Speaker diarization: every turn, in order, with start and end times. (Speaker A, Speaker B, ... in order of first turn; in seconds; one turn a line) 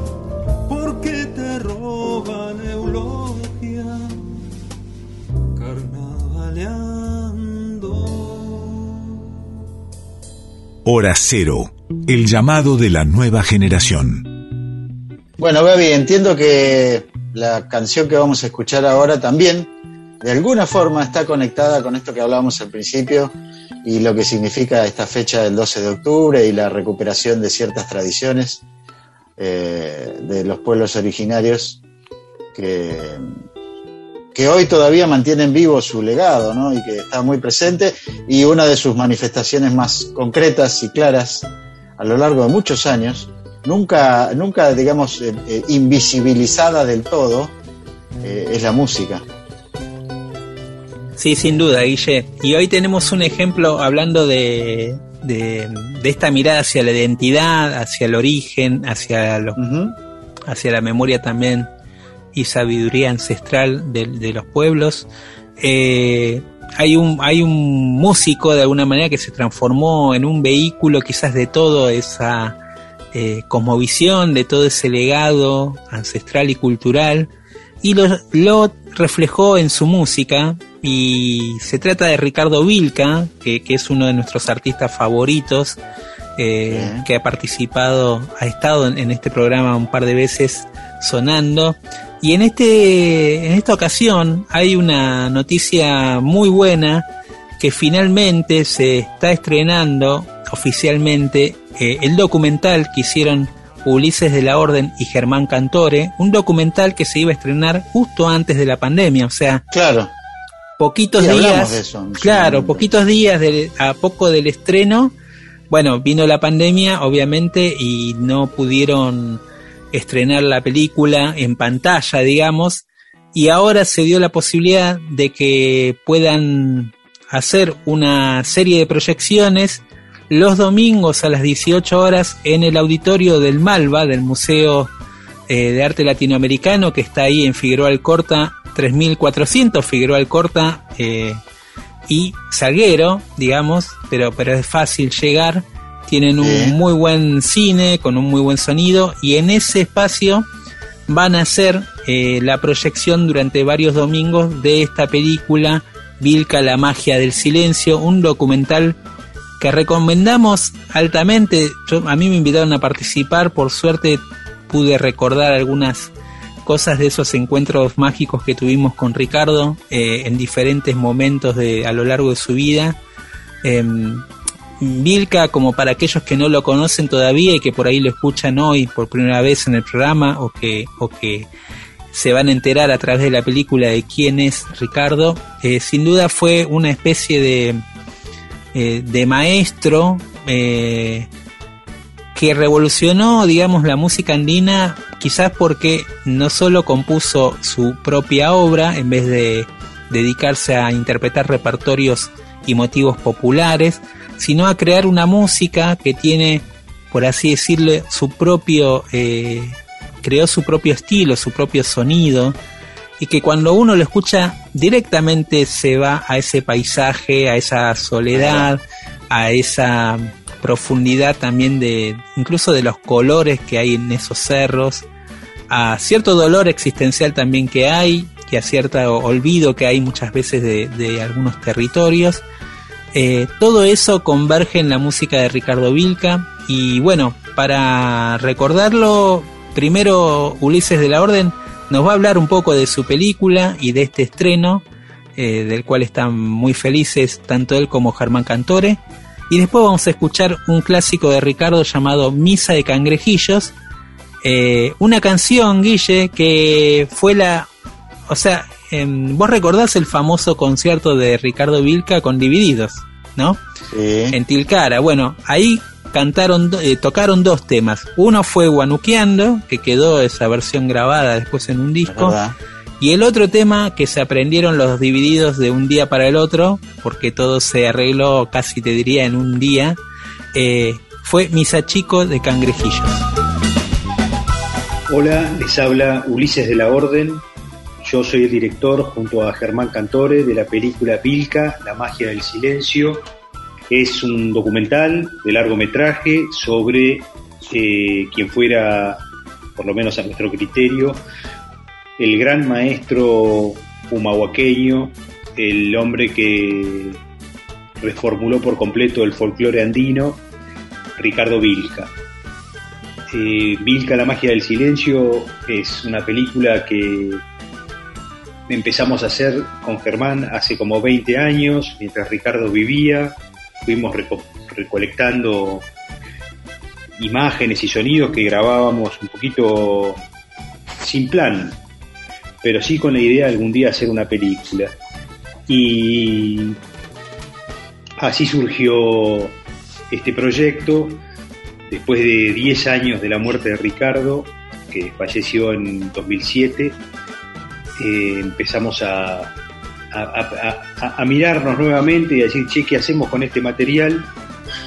Speaker A: 0.7-4.2
Speaker A: 5.6-9.1
Speaker B: 10.8-14.3
Speaker C: 15.4-28.6
Speaker C: 29.4-31.8
Speaker C: 32.5-33.2
Speaker C: 34.3-41.5
Speaker C: 42.0-47.5
Speaker C: 48.2-49.2
Speaker D: 51.2-59.6
Speaker C: 59.6-60.0
Speaker D: 60.5-61.7
Speaker D: 62.3-65.1
Speaker D: 65.6-72.6
Speaker D: 73.1-77.3
Speaker D: 77.8-85.8
Speaker D: 86.4-97.1
Speaker C: 86.7-87.0
Speaker D: 97.6-109.7
Speaker C: 109.7-110.1
Speaker D: 110.8-115.1
Speaker C: 111.2-112.9
Speaker D: 115.7-119.4
Speaker D: 119.9-134.9
Speaker D: 135.5-141.4
Speaker D: 142.1-150.5
Speaker C: 146.4-146.8
Speaker D: 151.1-159.0
Speaker D: 159.6-166.1
Speaker D: 166.7-173.0
Speaker D: 173.6-174.3
Speaker D: 174.8-181.5
Speaker D: 182.1-187.8
Speaker D: 188.7-191.3
Speaker D: 192.3-212.6
Speaker D: 213.2-225.1
Speaker C: 218.3-218.7
Speaker D: 225.7-232.4
Speaker D: 233.1-244.8
Speaker D: 245.4-253.8
Speaker D: 254.4-257.7
Speaker D: 258.3-263.6
Speaker C: 263.9-264.4
Speaker D: 264.3-272.4
Speaker C: 272.1-272.6
Speaker D: 273.0-280.0
Speaker D: 280.5-283.3
Speaker E: 285.1-287.4
Speaker E: 288.0-293.3
Speaker E: 293.9-299.2
Speaker E: 299.8-301.2
Speaker E: 302.2-307.2
Speaker E: 308.0-310.4
Speaker E: 311.2-312.1
Speaker E: 313.3-317.4
Speaker E: 318.7-325.9
Speaker E: 327.2-330.2
Speaker E: 331.0-331.8
Speaker E: 332.6-334.9
Speaker E: 335.7-336.8
Speaker E: 338.2-339.6
Speaker E: 340.1-341.2
Speaker E: 341.9-347.0
Speaker E: 348.0-349.5
Speaker E: 350.1-354.3